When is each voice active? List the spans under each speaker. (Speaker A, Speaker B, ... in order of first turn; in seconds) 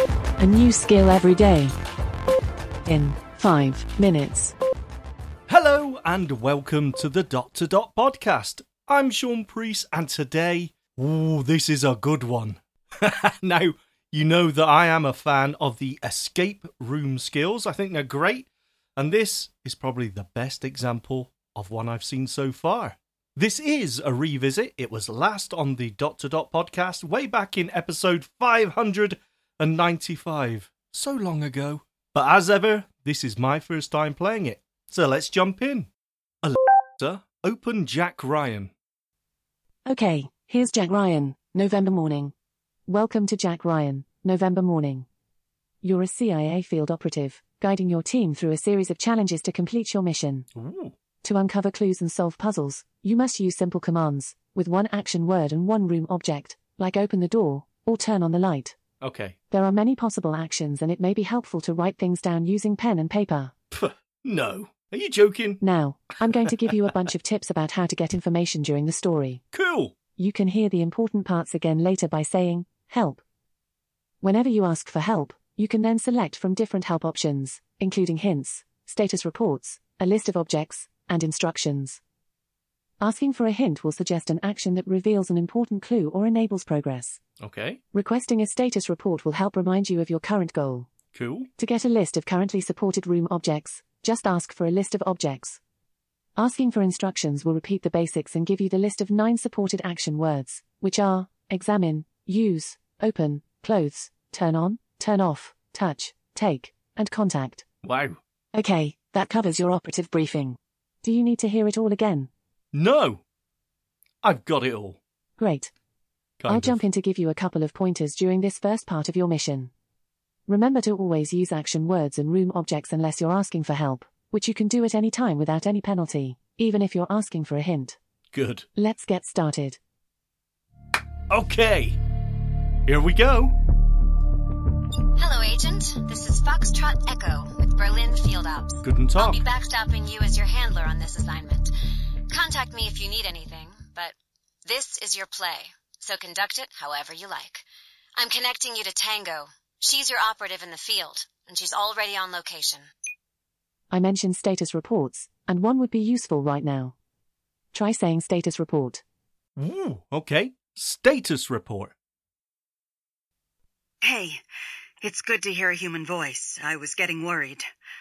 Speaker A: 0.4-1.7, 2.8-4.5, 39.9-42.3, 42.9-45.1, 45.8-50.5, 51.2-58.8, 59.5-63.5, 65.6-69.4, 70.2-73.2, 74.2-82.0, 83.0-87.2, 87.9-90.9, 91.6-95.6, 96.4-107.6, 108.5-112.3, 115.4-115.7, 116.5-119.7, 120.5-128.0, 128.7-129.8, 153.9-156.9, 157.7-159.0
Speaker B: 5.5-35.9, 36.4-38.7, 50.5-51.0, 59.0-59.4, 63.7-65.6, 69.5-69.9, 87.4-87.8, 91.1-91.5, 107.8-108.2, 112.7-113.2, 114.2-115.0, 116.4-116.8, 128.3-128.7, 131.3-132.0, 132.8-133.6, 138.8-139.4, 159.6-161.9
Speaker C: 135.2-141.7, 142.3-144.1, 144.7-147.6, 148.2-152.9
Speaker D: 164.0-164.4, 165.0-167.7